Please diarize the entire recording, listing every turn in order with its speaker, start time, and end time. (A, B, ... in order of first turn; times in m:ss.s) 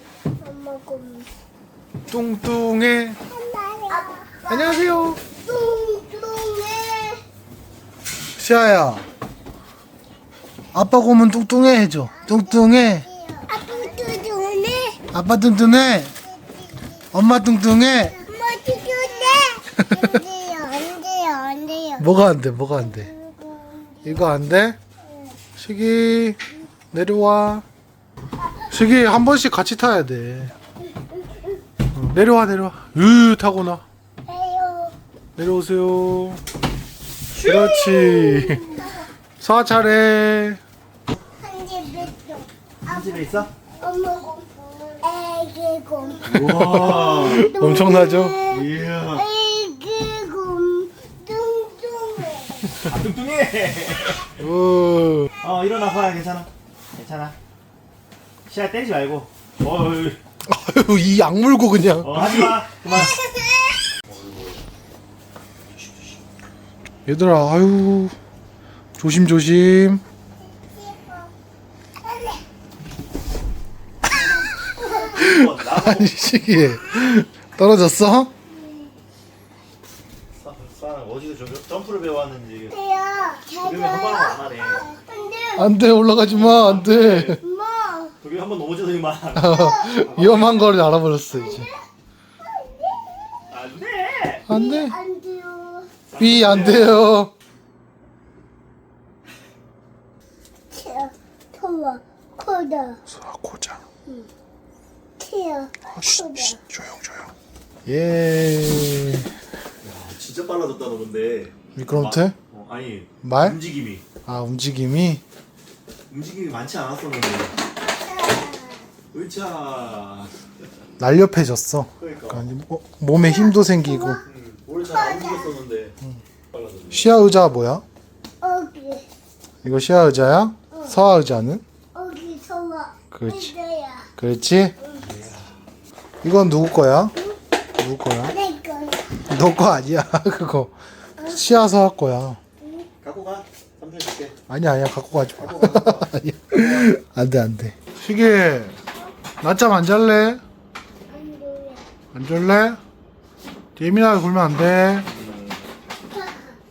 0:00.4-0:01.3 A
0:02.1-0:03.2 B
0:03.3-0:07.2 A
0:04.5-0:05.2 B
0:08.4-0:09.0 B
0:10.7-0:13.1 B
0:12.2-0:15.0 A
0:15.1-0:16.1 B
0:17.1-0:18.2 B
0:18.2-0:22.0 A
0:19.8-0:20.2 B
0:22.0-0:23.1 B
0:23.0-0:24.1 A
0:24.0-0:24.8 B
0:25.6-0:26.4 B
0:26.9-0:27.6 B
0:28.7-0:30.5 B
0:31.9-0:33.8 B
0:34.2-0:34.9 A
0:35.4-0:36.4 B
0:37.3-0:38.8 B
0:37.5-0:38.8 A
0:39.4-0:40.6 B
0:41.4-0:43.3 A
0:42.8-0:43.5 C
0:43.8-0:52.8 A
0:46.2-0:47.5 C
0:46.2-0:48.4 B
0:48.4-0:49.3 C
0:52.7-0:54.3 C
0:54.4-0:55.3 B
0:55.4-0:57.3 C
0:58.4-1:00.2 C
1:00.5-1:02.6 B
1:02.0-1:03.2 C
1:04.1-1:04.6 C
1:05.7-1:06.2 C
1:07.0-1:08.2 B
1:09.0-1:10.0 B
1:10.8-1:11.3 A
1:14.8-1:16.1 C
1:15.0-1:18.3 B
1:20.4-1:22.7 C
1:22.7-1:25.7 A
1:23.5-1:24.8 C
1:25.6-1:27.4 B
1:26.2-1:27.4 C
1:27.4-1:28.1 A
1:28.2-1:30.7 C
1:29.3-1:31.7 B
1:29.5-1:30.1 A
1:31.3-1:31.8 A
1:32.4-1:33.4 A
1:33.5-1:34.5 C
1:34.5-1:35.0 B
1:34.5-1:35.9 A
1:36.1-1:37.0 C
1:36.2-1:37.3 B
1:40.7-1:43.0 A
1:43.1-1:43.8 B
1:45.2-1:46.6 A
1:46.0-1:47.3 B
1:47.8-1:49.3 B
1:49.8-1:54.0 C
1:51.7-1:52.4 B
1:53.2-1:53.6 B
1:54.2-1:55.2 B
1:56.1-1:57.5 C
1:57.9-1:58.9 A
1:59.1-2:00.3 C
2:01.0-2:04.2 B
2:02.0-2:02.5 C
2:03.1-2:04.2 A
2:04.3-2:05.9 C
2:04.9-2:05.6 A
2:06.5-2:07.0 C
2:06.9-2:07.8 B
2:08.4-2:09.0 A
2:09.6-2:11.6 B
2:11.9-2:14.1 A
2:13.1-2:13.5 B
2:14.2-2:14.8 B
2:15.0-2:15.4 C
2:16.2-2:17.2 B
2:17.8-2:18.3 B
2:18.2-2:19.2 A
2:19.3-2:22.4 B
2:22.6-2:22.9 A
2:23.0-2:24.4 C
2:24.5-2:28.8 B
2:25.4-2:26.9 C
2:29.4-2:30.4 B
2:31.1-2:31.8 A
2:32.1-2:32.8 B
2:33.8-2:35.1 B
2:35.1-2:35.6 C
2:36.1-2:36.6 A